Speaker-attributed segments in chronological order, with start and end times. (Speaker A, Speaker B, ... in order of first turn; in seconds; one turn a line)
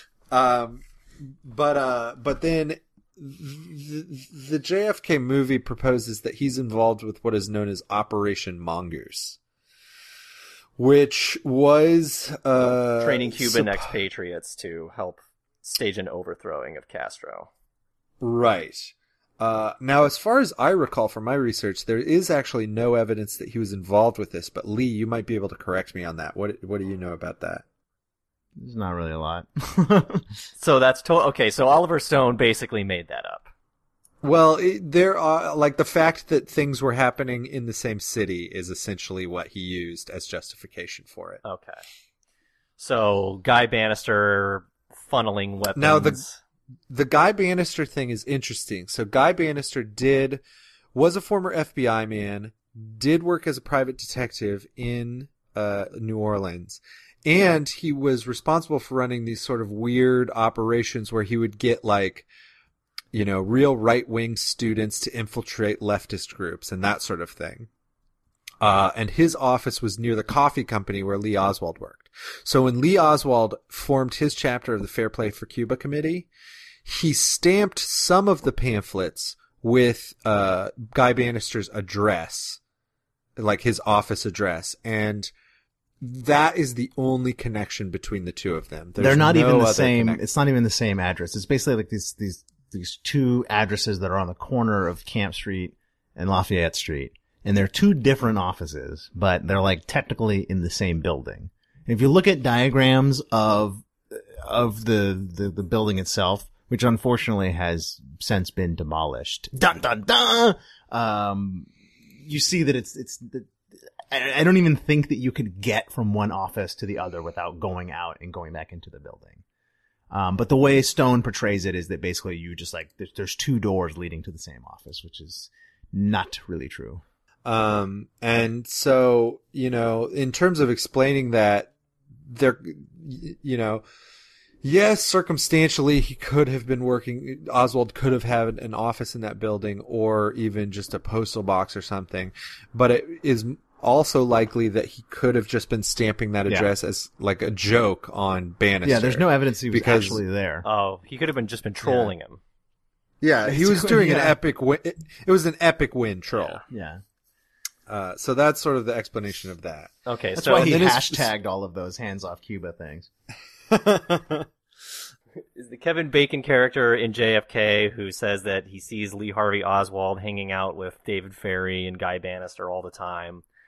Speaker A: 0.3-9.4
Speaker A: 10.8-13.9
Speaker B: 13.0-17.5
Speaker A: 18.2-27.6
Speaker C: 28.6-30.2
Speaker B: 30.6-33.5
Speaker A: 34.2-41.4
Speaker B: 41.4-41.8
Speaker B: 42.8-46.4
Speaker A: 45.8-46.2
Speaker A: 46.9-50.4
Speaker A: 50.9-62.2
Speaker A: 63.1-67.7
Speaker A: 68.6-76.3
Speaker A: 76.8-82.6
Speaker A: 83.4-85.3
Speaker A: 86.0-90.2
Speaker C: 89.0-113.5
Speaker C: 114.1-119.4
Speaker C: 120.1-127.0
Speaker A: 127.4-131.7
Speaker A: 132.2-133.8
Speaker A: 134.6-150.2
Speaker C: 148.8-150.7
Speaker B: 150.6-152.4
Speaker C: 151.8-152.1
Speaker A: 153.2-156.6
Speaker C: 153.4-154.4
Speaker C: 156.7-157.0
Speaker A: 157.9-159.9
Speaker B: 160.1-160.7
Speaker C: 160.3-163.1
Speaker A: 160.4-161.3
Speaker A: 163.7-164.5
Speaker B: 165.6-173.4